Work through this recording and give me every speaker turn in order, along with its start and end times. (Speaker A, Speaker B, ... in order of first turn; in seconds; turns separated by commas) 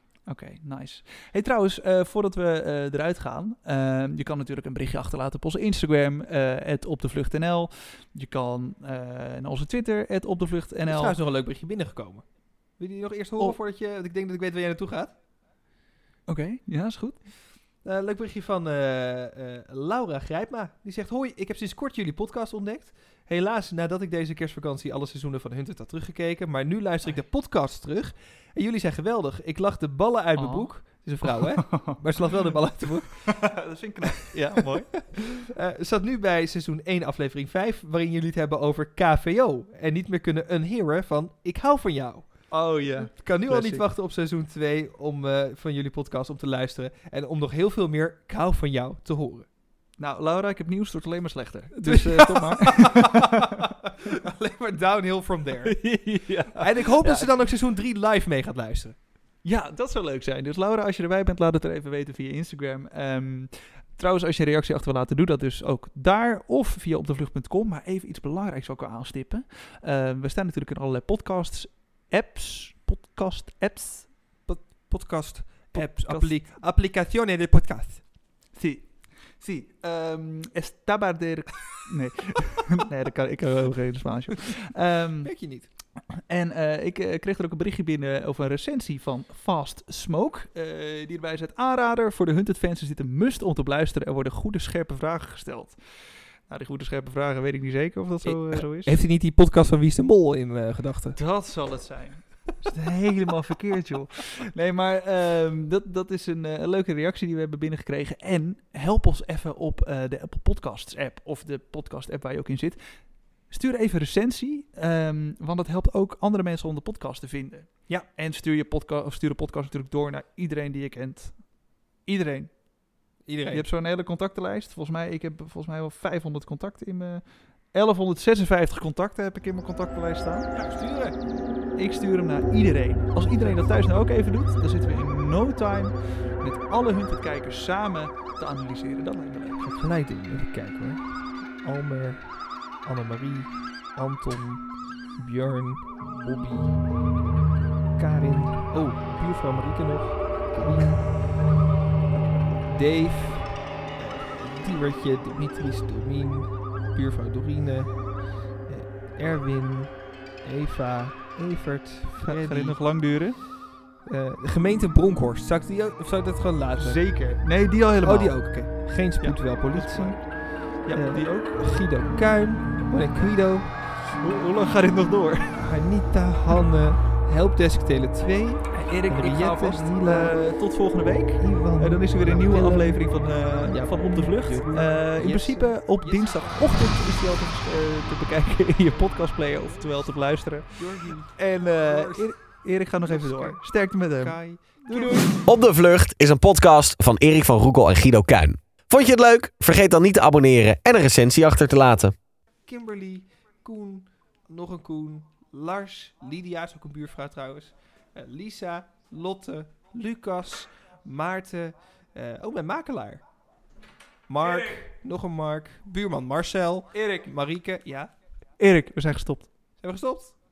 Speaker A: 0.3-11.2, Speaker B: 10.9-15.1, Speaker A: 16.3-17.2, Speaker B: 17.8-33.6, Speaker A: 30.4-32.0, Speaker A: 33.2-35.3, Speaker B: 35.4-49.5, Speaker A: 42.5-43.9, Speaker A: 50.0-53.6, Speaker B: 51.8-59.0, Speaker A: 55.6-57.3, Speaker A: 59.4-74.1, Speaker B: 74.5-78.0, Speaker A: 75.7-76.4, Speaker A: 78.5-85.3, Speaker B: 85.2-85.7, Speaker A: 86.1-95.8, Speaker A: 96.5-99.0, Speaker B: 98.2-101.2, Speaker A: 101.2-112.8, Speaker A: 113.5-122.7, Speaker B: 123.2-123.7, Speaker A: 123.5-130.5, Speaker B: 130.5-131.2, Speaker A: 131.8-139.6, Speaker B: 139.6-147.0, Speaker B: 148.0-151.5, Speaker A: 152.1-152.4, Speaker B: 152.6-162.8, Speaker A: 162.2-163.4, Speaker B: 164.0-167.4, Speaker A: 166.8-171.6, Speaker B: 168.0-173.7, Speaker A: 173.1-175.6, Speaker B: 175.6-180.4, Speaker A: 178.7-195.4, Speaker B: 181.4-187.0, Speaker B: 190.8-192.4, Speaker B: 193.0-195.4, Speaker C: 195.4-202.2, Speaker B: 202.7-213.3, Speaker B: 214.3-218.1, Speaker A: 214.4-214.8, Speaker A: 216.9-217.3, Speaker A: 218.6-219.5, Speaker B: 219.8-220.4